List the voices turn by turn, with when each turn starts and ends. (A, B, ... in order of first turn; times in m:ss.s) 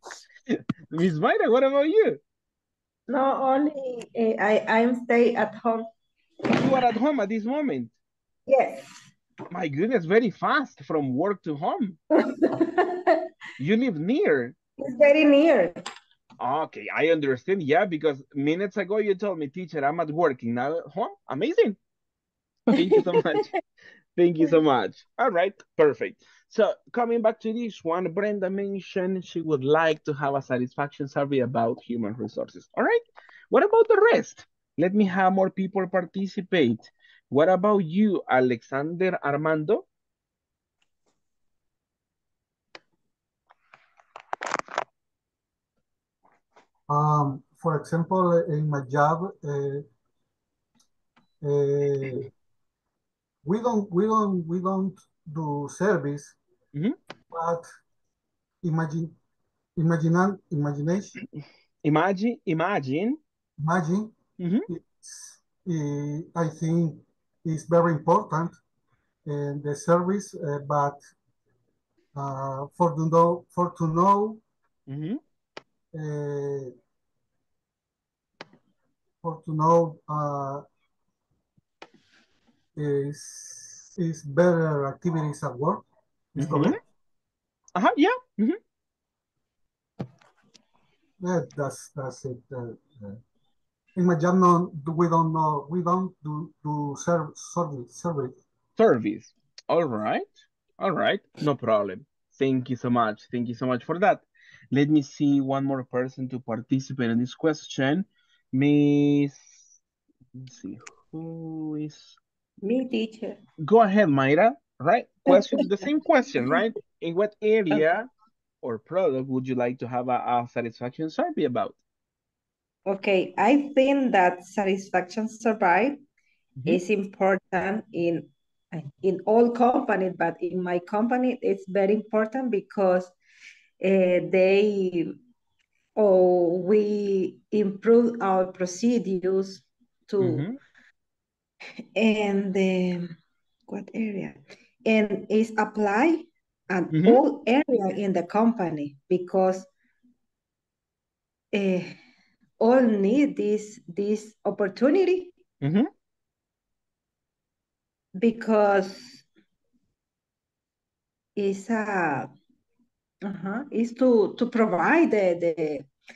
0:00.9-0:02.2 A
0:03.1-0:05.9 B
0:06.6-0:07.9 A
0:08.5-0:08.9 B
0:09.5-0:12.0 A
0:12.2-0:13.2 B
0:13.6-0:14.6 A
0:14.8-0:15.7 B
0:16.4-0:21.8 A
0:22.7-0:23.4 B
0:22.7-0:23.5 A
0:24.2-0:39.8 A
0:46.9-0:49.8 C
0:51.4-0:52.3 C
0:53.4-0:56.4 C
0:57.3-0:57.7 C
0:58.6-0:59.1 C
0:59.8-1:01.2 C
1:01.8-1:03.2 A
1:03.6-1:04.2 C
1:04.4-1:04.7 A
1:04.7-1:08.6 C
1:09.2-1:11.0 C
1:12.1-1:14.4 C
1:14.9-1:15.2 A
1:15.9-1:16.7 C
1:19.2-1:20.6 C
1:22.8-1:26.8 C
1:26.4-1:26.8 A
1:27.7-1:28.6 A
1:31.2-1:33.2 C
1:34.0-1:38.3 C
1:38.8-1:49.7 A
1:50.4-1:52.2 A
1:52.6-1:53.4 B
1:53.6-1:58.1 A
1:55.3-1:55.7 B
1:58.6-2:01.8 A
2:02.8-2:06.0 B
2:06.6-2:13.1 B
2:13.8-2:15.1 B
2:16.0-2:20.5 B
2:20.2-2:20.6 A
2:22.0-2:23.1 B
2:23.7-2:29.7 B
2:26.9-2:27.2 A
2:31.5-2:32.0 B
2:32.6-2:35.3 B
2:35.6-2:35.9 A
2:38.2-2:39.2 B
2:41.4-2:42.3 B
2:43.2-2:45.9 B